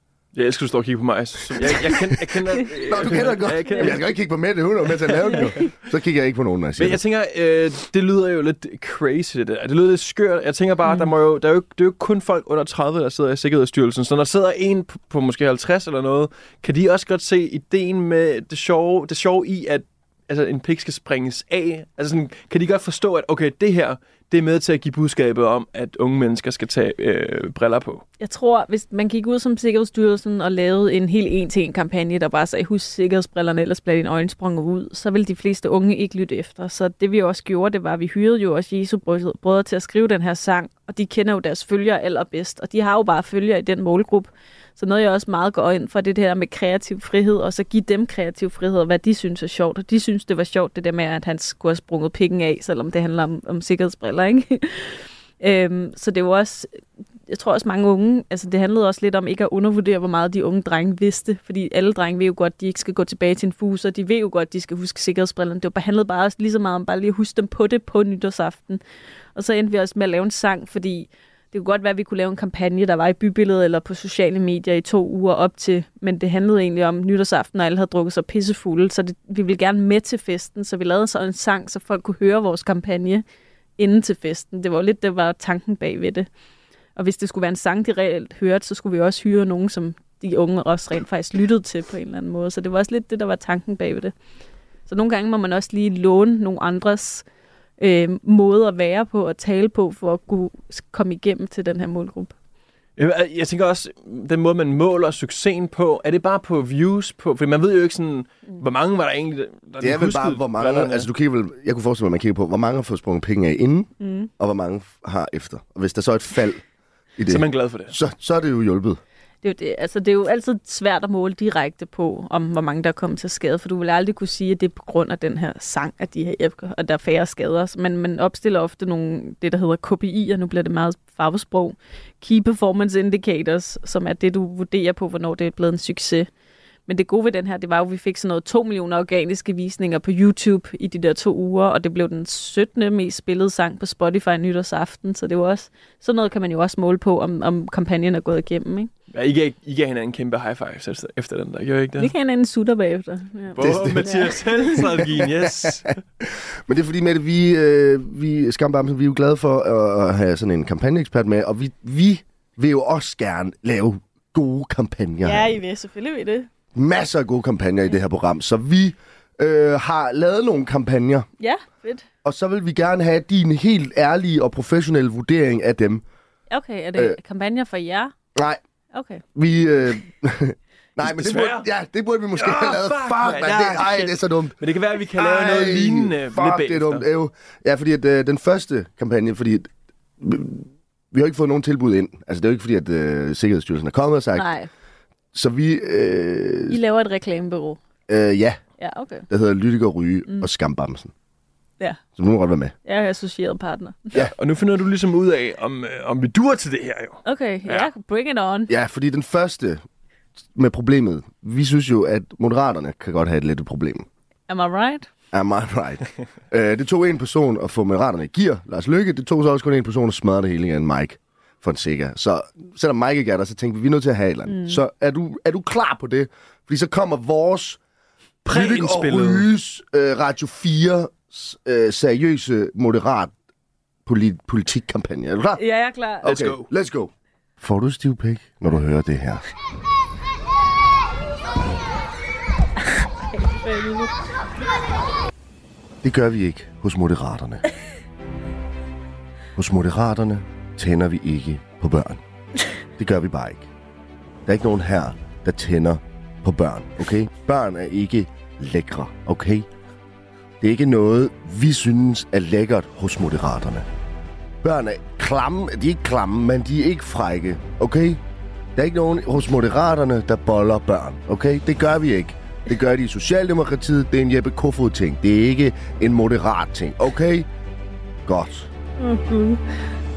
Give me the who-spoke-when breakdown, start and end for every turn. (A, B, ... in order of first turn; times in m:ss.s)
0:00.3-0:04.2 A
0:02.8-0:07.0 B
0:06.8-0:28.0 A
0:10.8-0:11.1 C
0:28.2-0:56.8 C
0:57.3-1:08.8 C
1:09.4-1:23.2 C
1:23.8-1:26.3 C
1:27.0-1:34.1 C
1:34.9-1:37.2 C
1:37.8-1:42.3 C
1:43.0-1:51.1 A
1:49.8-1:56.6 B
1:54.0-1:54.3 C
1:57.2-1:59.0 B
1:57.3-1:58.0 A
1:59.4-2:16.3 C
2:16.9-2:28.9 C
2:29.1-2:32.1 A
2:32.0-2:35.1 C
2:33.6-2:36.0 A
2:33.6-2:34.2 B
2:35.2-2:45.6 B
2:45.2-2:46.5 C
2:46.8-2:51.3 B
2:51.4-2:52.0 C
2:52.2-2:56.0 B
2:56.5-2:58.1 C
2:58.4-2:58.6 B
2:58.9-2:59.2 C
2:59.4-3:04.6 B
3:01.0-3:01.7 A
3:02.4-3:07.1 A
3:05.1-3:14.5 B
3:14.4-3:14.7 C
3:15.3-3:16.8 B
3:16.7-3:17.8 C
3:18.1-3:18.6 B
3:18.8-3:19.3 C
3:19.3-3:21.1 B
3:22.2-3:22.7 B
3:22.8-3:24.1 C
3:24.1-3:27.9 A
3:27.2-3:28.7 C
3:28.7-3:29.8 B
3:30.6-3:34.1 B
3:34.5-3:35.1 C
3:35.3-3:47.8 B
3:44.5-3:44.8 C
3:48.4-3:53.3 B
3:48.5-3:49.5 A
3:54.1-3:55.6 B
3:55.6-3:56.3 C
3:56.2-3:59.4 B
3:56.2-3:56.7 A
4:03.3-4:04.1 C
4:06.0-4:07.6 B
4:09.6-4:12.2 B
4:13.0-4:13.7 B
4:14.5-4:19.7 B
4:20.6-4:23.9 B
4:24.6-4:28.2 B
4:28.8-4:37.5 B
4:38.3-4:38.7 B
4:39.0-4:39.6 C